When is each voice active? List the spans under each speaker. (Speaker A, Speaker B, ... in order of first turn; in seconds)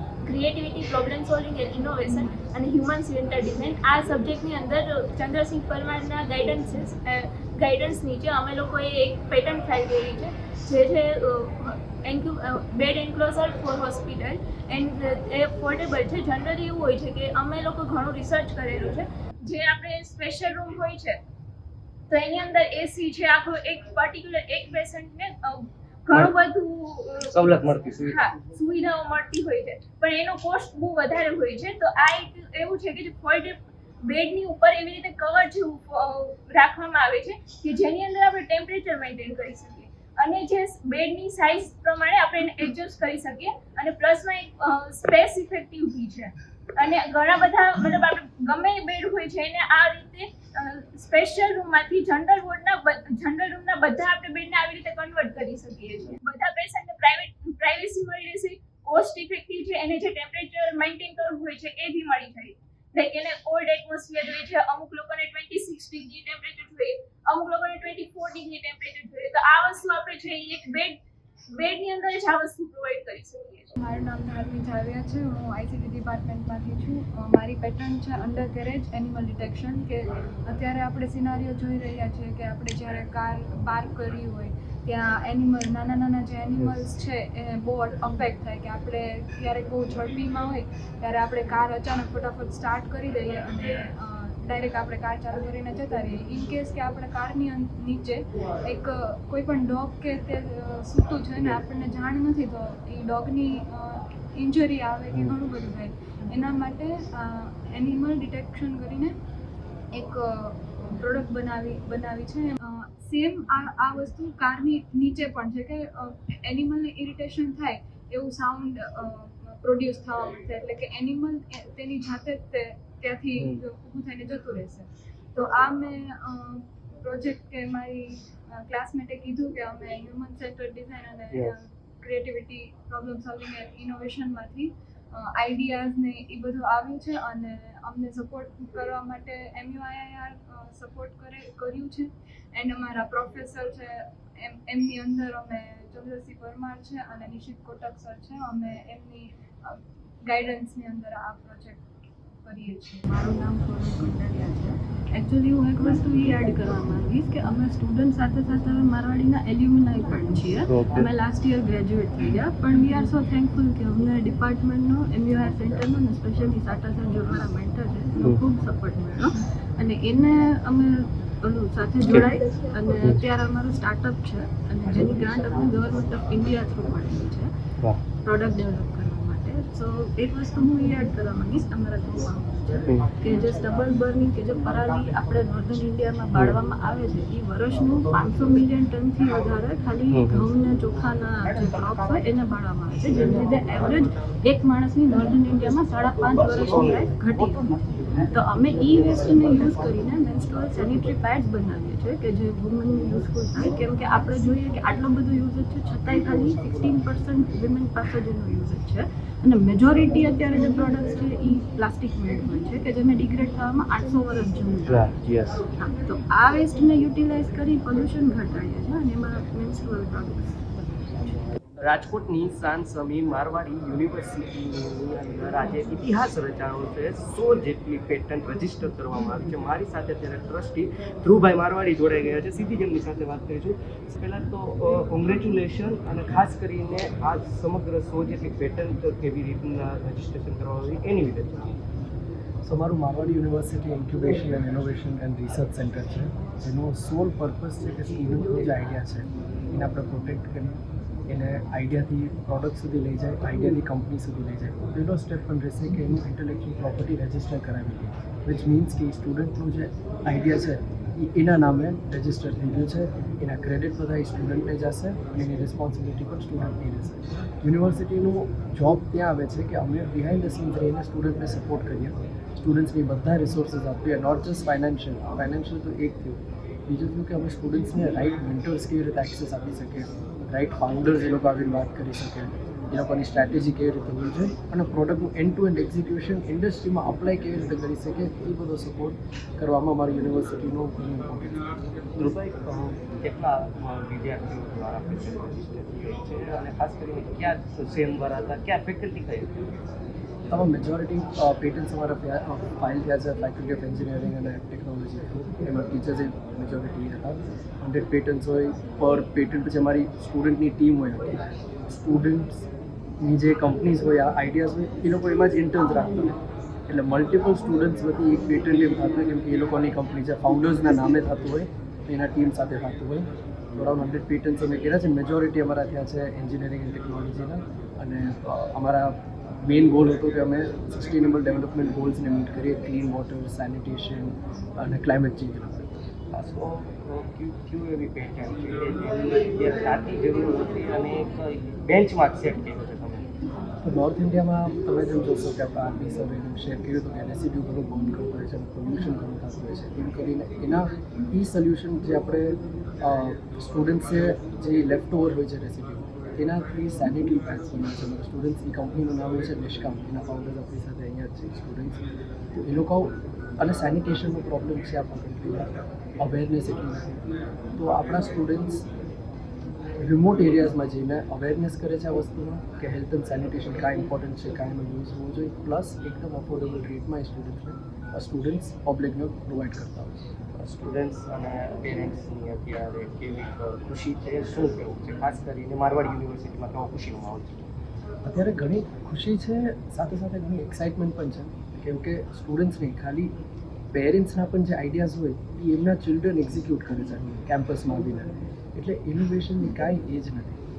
Speaker A: 0.2-21.2, 22.1-71.0, 71.6-73.8, 172.1-173.2
Speaker B: 27.2-28.3, 160.7-161.0, 190.1-190.5, 221.8-241.7, 292.2-299.7, 336.3-343.3, 380.6-387.7
Speaker C: 73.8-109.1, 109.9-151.8, 152.4-153.1
Speaker D: 153.1-177.5, 178.1-197.8, 198.3-215.2, 215.8-220.9
Speaker E: 242.6-291.6, 300.5-312.7, 313.2-336.0, 343.8-362.0, 362.5-365.7, 366.2-367.2, 367.8-368.9, 370.0-380.2, 388.2-393.3, 393.9-400.6